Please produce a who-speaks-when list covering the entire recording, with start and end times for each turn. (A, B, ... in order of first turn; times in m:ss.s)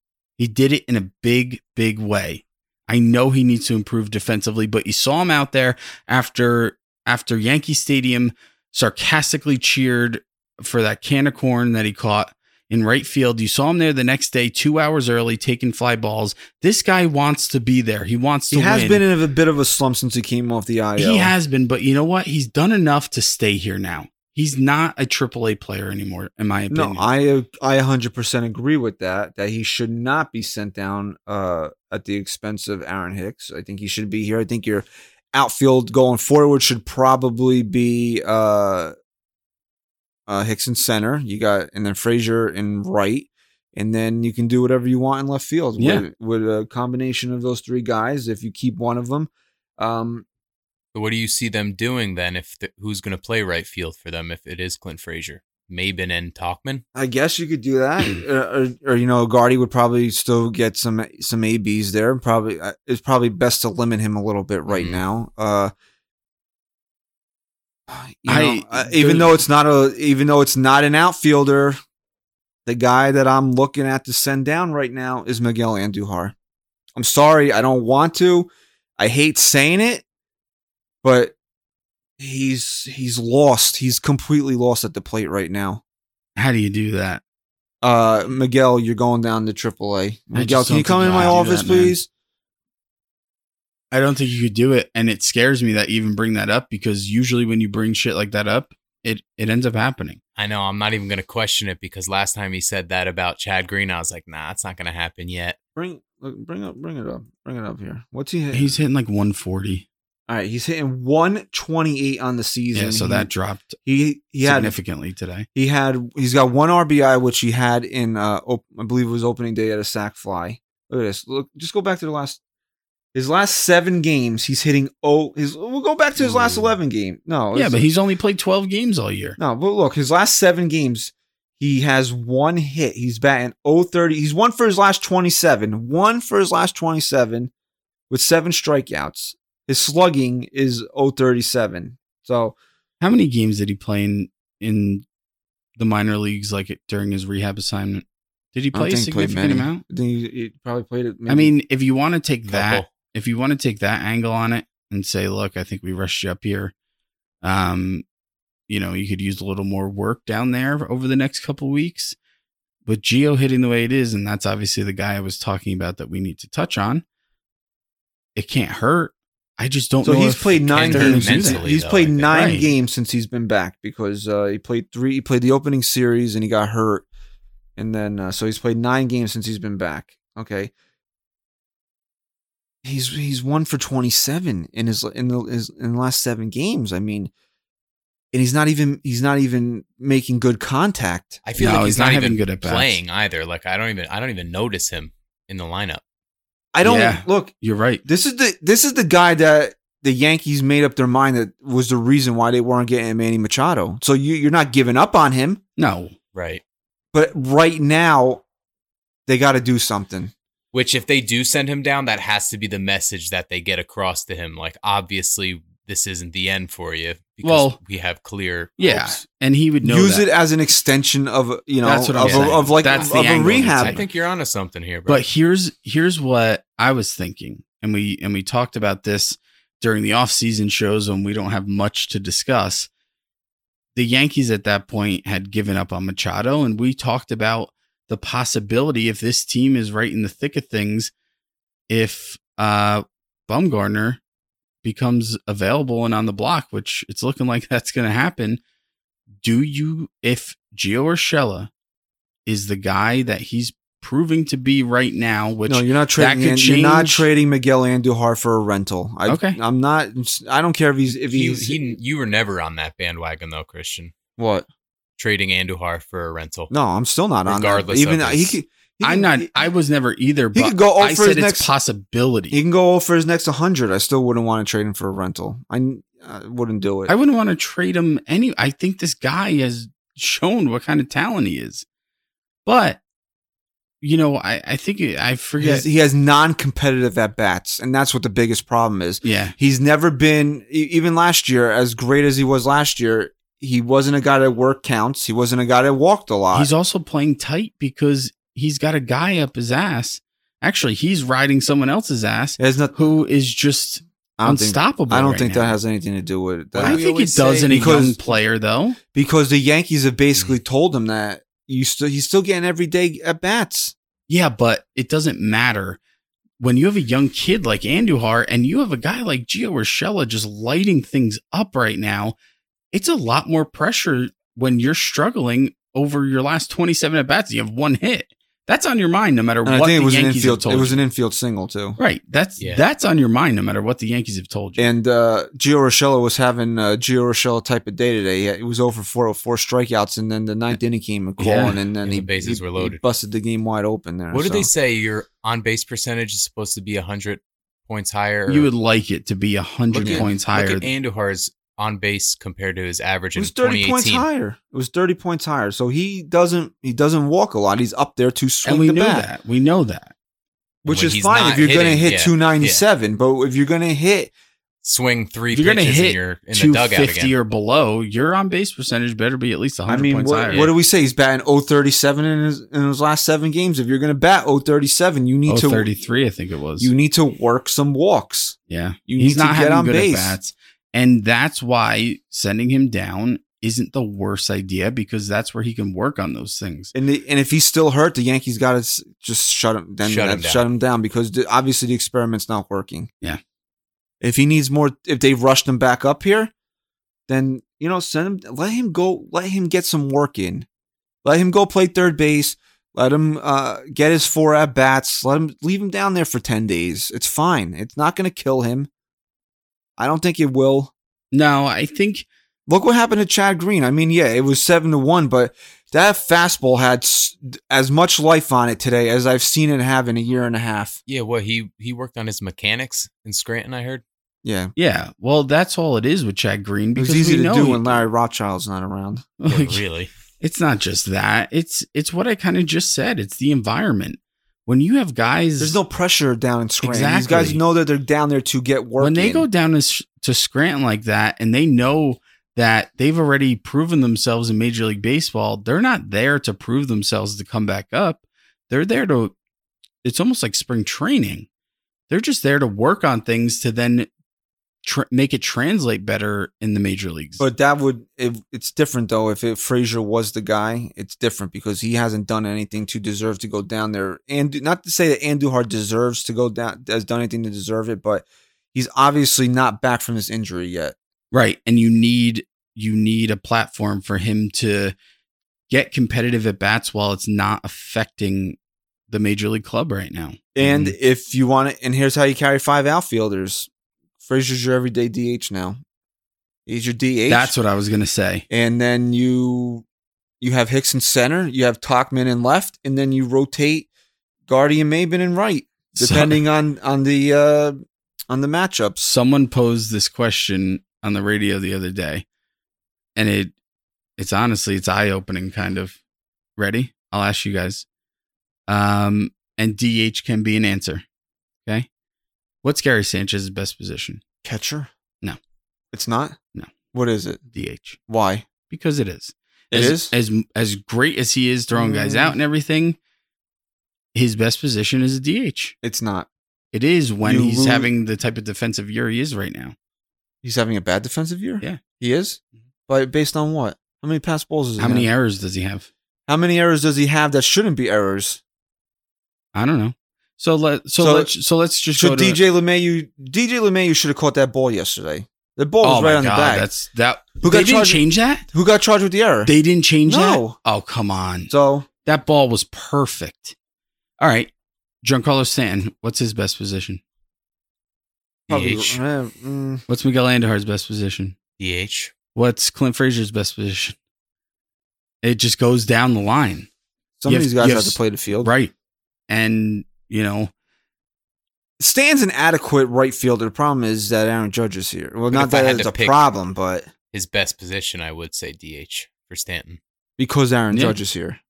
0:00.4-0:19.0 A
0:18.5-0:21.3 B
0:21.0-0:27.0 A
0:26.7-0:38.9 B
0:40.3-0:50.2 B
0:45.8-0:46.0 A
0:50.9-0:56.8 C
0:56.9-1:05.7 B
1:04.7-1:05.0 C
1:07.9-1:11.8 B
1:08.3-1:09.4 A
1:12.6-1:16.3 B
1:17.0-1:20.0 B
1:21.0-1:21.4 B
1:22.2-1:25.8 B
1:26.4-1:27.2 A
1:27.8-1:32.1 B
1:30.3-1:32.0 A
1:33.9-1:40.2 A
1:40.4-1:45.6 C
1:45.8-1:48.8 B
1:48.5-1:49.8 A
1:50.3-1:53.3 B
1:52.7-1:53.8 A
1:53.8-1:54.8 B
1:54.4-1:55.4 A
1:55.5-2:02.4 B
2:03.1-2:07.9 B
2:06.2-2:06.8 C
2:07.5-2:09.4 A
2:09.4-2:17.5 B
2:18.1-2:22.6 B
2:23.0-2:25.0 A
2:25.8-2:29.8 A
2:28.7-2:31.5 B
2:31.3-2:36.7 A
2:32.5-2:32.9 C
2:37.4-2:38.0 A
2:38.7-2:42.2 A
2:42.8-2:47.0 A
2:48.4-2:51.6 A
2:50.0-2:57.0 B
2:50.7-2:52.7 C
2:52.3-2:52.7 A
2:57.8-3:00.7 B
3:02.8-3:07.3 B
3:08.3-3:11.4 B
3:11.4-3:16.0 C
3:11.6-3:13.0 A
3:16.7-3:17.5 B
3:16.8-3:18.0 A
3:18.0-3:25.6 B
3:25.8-3:26.1 A
3:26.3-3:26.6 C
3:27.1-3:28.4 B
3:29.3-3:30.3 B
3:30.7-3:39.2 C
3:37.4-3:37.8 A
3:38.8-3:40.2 A
3:39.8-3:44.0 B
3:41.8-3:44.0 A
3:42.2-3:45.2 C
3:45.1-3:52.9 A
3:53.9-4:01.1 A
4:01.9-4:04.2 A
4:04.8-4:08.6 A
4:09.4-4:11.7 A
4:12.4-4:17.3 A
4:15.7-4:22.0 B
4:19.3-4:19.6 A
4:21.1-4:24.1 C
4:24.4-4:24.7 B
4:25.2-4:26.7 C
4:26.7-4:29.6 B
4:27.4-4:28.6 C
4:29.0-4:32.6 A
4:30.5-4:31.7 B
4:32.5-4:37.1 B
4:37.1-4:41.8 A
4:42.6-4:43.0 A
4:44.0-4:45.8 A
4:45.6-4:56.7 B
4:49.2-4:49.5 A
4:56.5-5:05.8 A
5:02.6-5:03.0 B
5:04.4-5:08.2 B
5:06.7-5:09.0 A
5:06.8-5:08.2 C
5:09.1-5:13.9 B
5:14.3-5:16.0 A
5:16.6-5:22.4 A
5:22.9-5:31.0 A
5:29.6-5:32.0 B
5:32.0-5:34.9 A
5:32.6-5:32.8 C
5:34.8-5:44.7 B
5:41.4-5:41.8 A
5:42.0-5:43.0 C
5:44.3-5:48.7 C
5:48.5-5:50.9 A
5:49.9-5:54.3 C
5:49.9-5:50.3 B
5:53.4-5:59.3 B
5:58.6-6:00.1 A
6:00.8-6:04.3 B
6:00.8-6:02.8 C
6:04.8-6:07.3 C
6:05.5-6:10.7 A
6:09.9-6:15.9 B
6:10.5-6:10.7 C
6:15.4-6:16.9 A
6:16.8-6:18.6 B
6:18.7-6:26.9 A
6:19.1-6:20.4 B
6:26.9-6:33.1 B
6:30.0-6:30.6 C
6:34.2-6:36.5 B
6:37.3-6:40.7 B
6:41.2-6:48.9 B
6:50.0-6:50.9 B
6:51.3-6:52.2 A
6:52.7-7:01.0 B
7:01.1-7:04.0 C
7:04.4-7:04.7 B
7:04.8-7:08.1 A
7:07.0-7:09.3 B
7:09.4-7:09.8 A
7:09.5-7:10.1 C
7:10.4-7:15.8 A
7:15.6-7:19.4 B
7:16.8-7:17.6 A
7:19.0-7:29.3 A
7:30.0-7:31.5 A
7:32.1-7:34.1 A
7:34.8-7:37.4 A
7:37.4-7:50.9 B
7:51.3-7:54.9 A
7:55.7-7:58.6 A
7:59.1-8:01.0 A
8:00.5-8:03.7 B
8:04.2-8:05.8 B
8:06.7-8:07.5 B
8:07.3-8:08.4 A
8:08.5-8:09.8 B
8:10.4-8:13.9 B
8:14.5-8:19.0 B
8:16.0-8:16.4 A
8:19.0-8:22.2 A
8:23.2-8:23.5 A
8:24.2-8:26.0 A
8:26.6-8:27.8 A
8:28.7-8:31.0 A
8:32.6-8:34.2 A
8:34.4-8:34.9 B
8:35.9-8:36.4 B
8:36.9-8:37.4 B
8:37.5-8:38.0 A
8:38.1-8:38.5 B
8:38.7-8:43.0 A
8:39.7-8:40.1 B
8:41.7-8:42.4 B
8:44.1-8:45.7 A
8:45.8-8:46.3 B
8:46.7-8:49.7 A
8:47.2-8:47.9 B
8:50.4-8:55.1 B
8:54.8-8:55.9 A
8:56.3-8:58.4 B
8:59.5-9:02.4 A
9:01.0-9:01.3 B
9:02.0-9:06.7 B
9:05.8-9:08.5 A
9:07.4-9:09.5 B
9:09.4-9:11.5 A
9:10.1-9:10.6 B
9:11.5-9:11.9 B
9:12.0-9:13.5 A
9:14.2-9:14.5 A
9:15.0-9:17.0 A
9:18.5-9:19.0 C
9:18.5-9:19.8 B
9:19.9-9:21.4 A
9:21.6-9:22.1 C
9:22.3-9:24.0 A
9:25.2-9:26.7 A
9:27.2-9:28.5 B
9:27.2-9:28.7 A
9:29.3-9:30.5 A
9:31.8-9:36.9 B
9:35.3-9:36.2 C
9:37.1-9:39.8 C
9:40.2-9:41.4 B
9:40.7-9:41.0 A